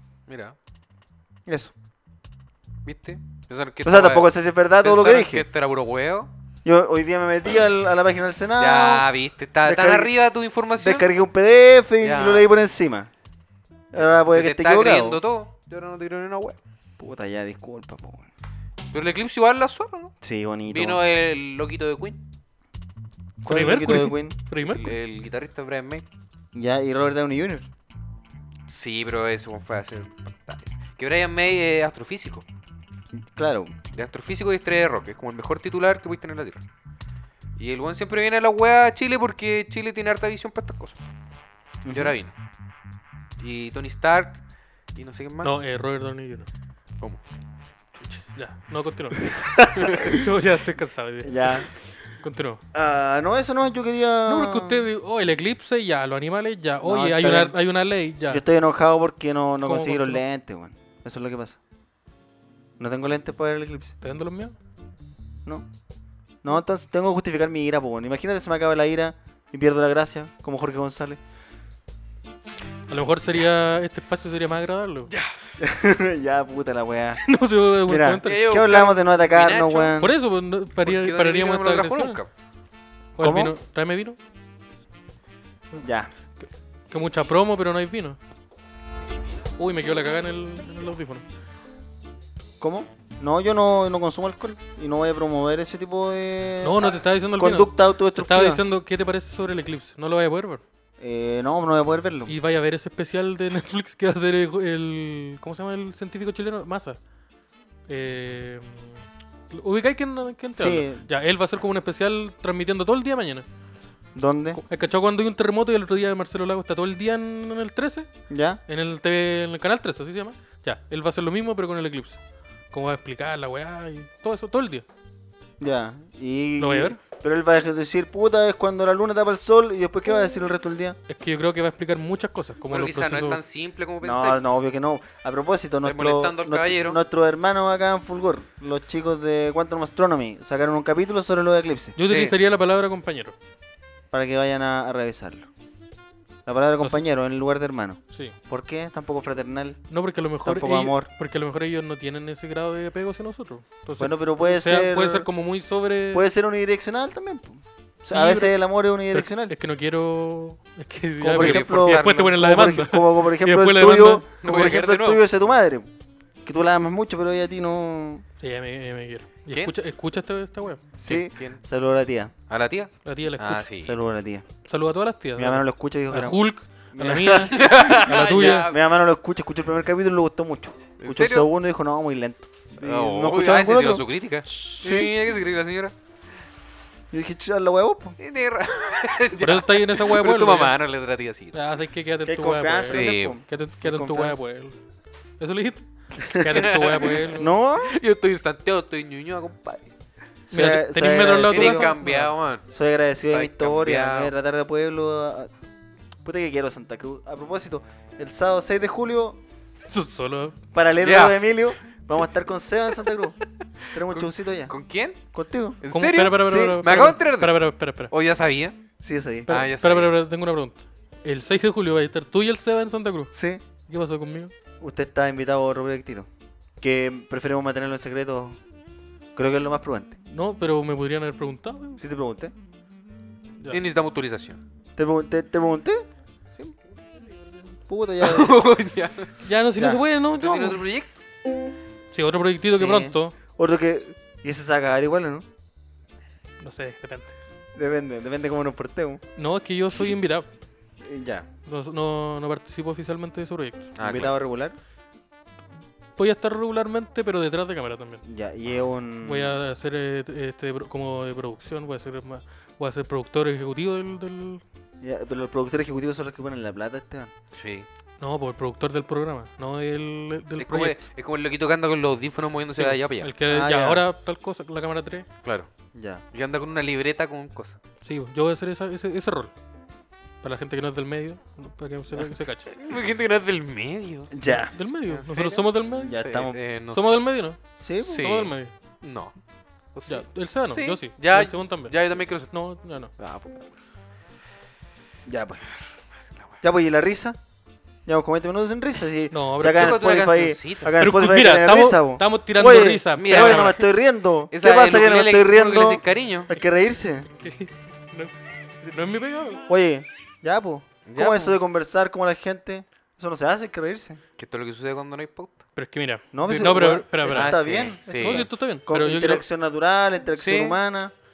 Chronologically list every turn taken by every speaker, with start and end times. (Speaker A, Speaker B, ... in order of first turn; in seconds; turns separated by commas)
Speaker A: 0.3-0.6, Speaker B: 1.5-1.7, Speaker A: 2.9-6.3, Speaker B: 3.8-5.5, Speaker B: 6.7-9.1, Speaker A: 8.6-11.1, Speaker B: 9.6-10.1, Speaker B: 10.8-13.1, Speaker A: 12.0-12.5, Speaker B: 13.9-15.2, Speaker A: 13.9-16.6, Speaker B: 17.0-18.3, Speaker A: 18.9-20.1, Speaker B: 20.2-21.0, Speaker A: 20.7-22.2, Speaker B: 23.4-24.4, Speaker C: 23.5-24.9, Speaker A: 24.7-26.1, Speaker B: 26.5-27.7, Speaker A: 28.7-32.4, Speaker B: 33.2-33.7, Speaker A: 33.9-36.6, Speaker A: 37.6-41.0, Speaker B: 41.8-42.1, Speaker A: 41.9-42.3, Speaker A: 43.4-44.4, Speaker A: 45.0-45.5, Speaker C: 45.4-46.5, Speaker C: 48.0-49.3, Speaker B: 49.4-50.2, Speaker A: 49.8-50.0, Speaker C: 49.9-52.6, Speaker B: 51.2-51.7, Speaker B: 52.7-54.9, Speaker C: 54.3-58.4, Speaker B: 56.8-57.5, Speaker B: 58.3-61.6, Speaker C: 59.6-60.2, Speaker B: 62.8-64.0, Speaker C: 64.0-64.5, Speaker B: 66.4-71.2, Speaker C: 72.9-75.1, Speaker B: 75.6-77.2, Speaker C: 77.2-78.5, Speaker B: 77.9-80.1, Speaker A: 78.2-80.0, Speaker C: 80.0-82.2, Speaker A: 80.8-82.3, Speaker C: 83.2-84.2, Speaker B: 83.2-83.5, Speaker B: 85.8-86.1, Speaker C: 86.9-88.2, Speaker C: 89.6-91.2, Speaker B: 92.6-98.6, Speaker C: 96.6-100.6, Speaker B: 101.0-102.3, Speaker C: 102.3-107.0, Speaker C: 107.9-109.0, Speaker C: 109.5-113.5, Speaker B: 110.6-111.1, Speaker B: 114.2-114.6, Speaker C: 114.6-118.1, Speaker B: 118.3-118.6, Speaker C: 118.7-122.2, Speaker C: 122.7-124.8, Speaker B: 125.6-131.0, Speaker C: 126.6-127.0, Speaker C: 131.1-133.4, Speaker A: 132.7-134.4, Speaker B: 134.0-142.0, Speaker A: 135.8-137.0, Speaker C: 142.0-143.4, Speaker A: 142.1-142.3, Speaker B: 144.1-145.5, Speaker B: 146.5-149.8, Speaker C: 149.9-156.3, Speaker B: 150.4-151.1, Speaker B: 154.0-155.3, Speaker B: 156.1-159.6, Speaker C: 158.1-158.6, Speaker C: 159.1-164.2, Speaker B: 161.2-165.9, Speaker A: 161.3-162.4, Speaker A: 164.4-165.2, Speaker B: 166.4-168.2, Speaker C: 168.4-170.8, Speaker B: 171.0-172.3, Speaker A: 171.1-171.6, Speaker A: 172.5-174.0, Speaker C: 173.1-173.7, Speaker B: 173.8-174.4, Speaker C: 174.7-178.7, Speaker B: 175.4-176.4, Speaker B: 177.0-185.1, Speaker A: 177.5-178.8, Speaker A: 181.0-181.5, Speaker A: 182.8-185.9, Speaker B: 187.1-188.2, Speaker A: 188.2-191.6, Speaker C: 189.4-190.8, Speaker C: 191.5-194.8, Speaker B: 192.3-194.4, Speaker A: 192.9-193.4, Speaker C: 195.4-197.5, Speaker A: 196.5-199.9, Speaker B: 197.3-197.9, Speaker B: 200.5-201.9, Speaker C: 200.5-202.3, Speaker A: 201.4-202.7, Speaker B: 202.7-205.5, Speaker A: 203.3-204.3, Speaker B: 206.2-209.4, Speaker C: 209.9-210.6, Speaker B: 210.7-213.4, Speaker A: 211.0-211.4, Speaker B: 213.9-214.7, Speaker A: 214.0-215.2, Speaker B: 215.3-215.8, Speaker A: 215.8-218.9, Speaker C: 215.9-218.1, Speaker B: 216.4-216.8, Speaker B: 219.0-219.5, Speaker A: 219.5-220.2, Speaker C: 219.5-223.3, Speaker B: 223.3-223.6, Speaker C: 223.9-224.5, Speaker B: 224.8-226.3, Speaker B: 226.8-228.6, Speaker B: 229.4-230.2, Speaker C: 230.3-232.0, Speaker B: 232.0-232.5, Speaker A: 233.7-234.6, Speaker B: 235.0-236.1, Speaker A: 236.6-236.9, Speaker B: 237.9-238.6, Speaker A: 238.2-239.3, Speaker C: 239.4-240.8, Speaker B: 239.8-240.0, Speaker A: 240.4-241.1, Speaker C: 242.1-243.3, Speaker B: 242.6-245.5, Speaker C: 246.6-247.3, Speaker B: 247.8-249.2, Speaker C: 249.4-250.5, Speaker B: 251.0-251.5, Speaker C: 251.7-253.9, Speaker A: 254.0-254.4, Speaker B: 254.0-254.8, Speaker C: 256.2-258.2, Speaker B: 258.2-259.6, Speaker C: 259.2-264.6, Speaker B: 265.0-267.3, Speaker A: 267.5-267.9, Speaker C: 268.2-271.0, Speaker A: 270.6-273.3, Speaker C: 272.8-275.3, Speaker B: 273.5-274.1, Speaker B: 275.9-276.2, Speaker A: 276.3-277.8, Speaker C: 278.0-279.5, Speaker C: 280.4-282.7, Speaker A: 282.7-284.3, Speaker B: 284.3-284.8, Speaker C: 284.4-286.2, Speaker A: 285.1-287.2, Speaker B: 286.0-286.6, Speaker C: 286.9-288.7, Speaker B: 287.8-288.3, Speaker A: 288.1-289.3, Speaker A: 289.9-292.5, Speaker C: 290.1-293.1, Speaker A: 293.2-293.7, Speaker B: 295.3-295.7, Speaker A: 296.3-296.5, Speaker B: 296.6-297.4, Speaker B: 298.1-307.3, Speaker C: 299.3-300.1, Speaker A: 299.7-300.9, Speaker C: 300.9-303.7, Speaker A: 303.1-303.9, Speaker A: 304.5-306.5, Speaker C: 307.4-309.6, Speaker B: 309.7-314.2, Speaker A: 311.1-311.6, Speaker A: 314.4-315.6, Speaker C: 315.8-319.4, Speaker B: 316.3-321.1, Speaker A: 317.3-318.4, Speaker A: 320.4-320.8